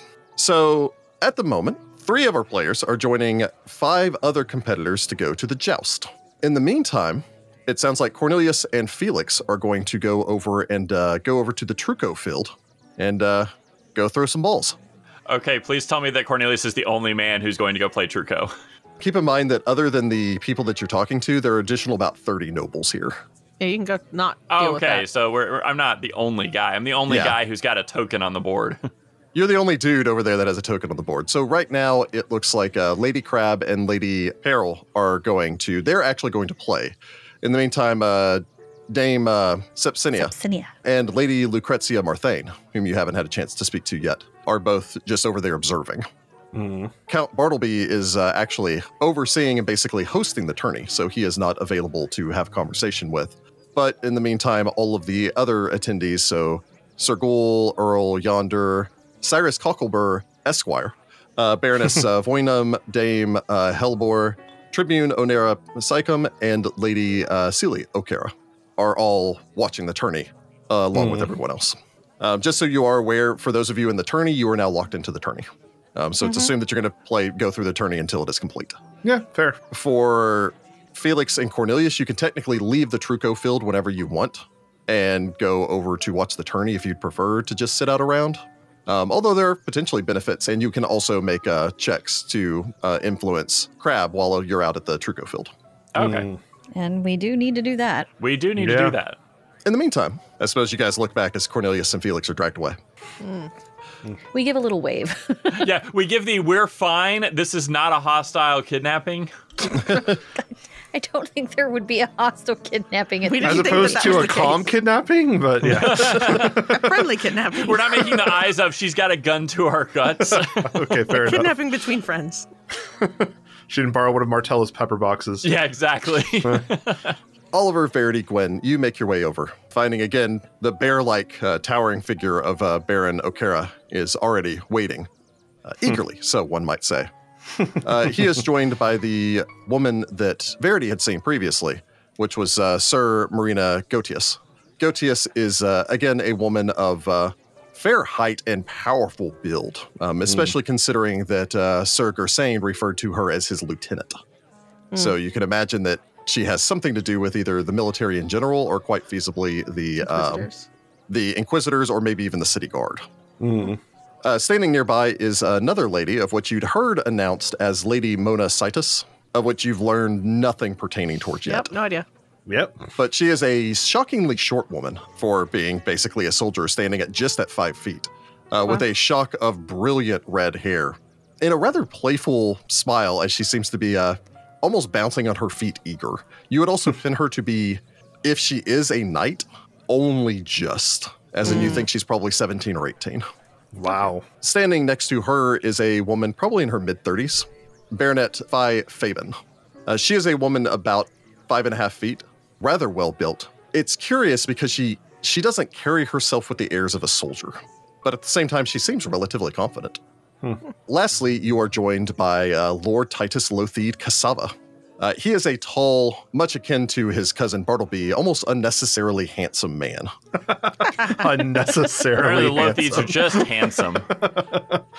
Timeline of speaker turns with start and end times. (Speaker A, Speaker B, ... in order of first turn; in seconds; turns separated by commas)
Speaker A: 0.4-14.8, Speaker B: 15.3-18.5, Speaker A: 19.0-23.2, Speaker C: 23.6-25.0, Speaker B: 24.5-28.8, Speaker A: 27.1-27.4, Speaker A: 29.3-46.0, Speaker D: 40.2-40.7, Speaker E: 46.5-46.9, Speaker A: 47.1-78.8, Speaker E: 71.0-71.3, Speaker E: 79.0-79.6, Speaker A: 79.7-95.5, Speaker B: 95.9-96.3, Speaker E: 96.0-96.4, Speaker D: 96.7-98.1, Speaker B: 98.2-99.2, Speaker E: 98.6-99.0, Speaker A: 99.6-102.8, Speaker C: 103.2-103.5, Speaker D: 104.3-105.7, Speaker B: 105.5-109.3, Speaker D: 110.9-114.5, Speaker C: 113.2-114.7, Speaker E: 113.4-117.1, Speaker B: 115.6-116.8, Speaker C: 116.4-118.4, Speaker B: 117.5-121.0, Speaker E: 120.3-121.6, Speaker C: 121.1-122.5, Speaker E: 123.0-125.5, Speaker B: 125.4-127.2, Speaker A: 127.5-135.1, Speaker A: 135.6-137.1, Speaker A: 137.7-154.2, Speaker A: 154.9-160.5, Speaker C: 160.0-160.7, Speaker A: 161.1-163.0, Speaker E: 163.4-163.8, Speaker A: 164.2-171.7, Speaker C: 171.4-172.1, Speaker E: 172.5-172.8, Speaker A: 172.9-193.2, Speaker C: 191.4-191.8, Speaker E: 193.7-194.3, Speaker A: 194.4-210.0, Speaker A: 210.9-220.1, Speaker E: 220.5-223.5, Speaker B: 222.1-224.1, Speaker E: 224.0-224.8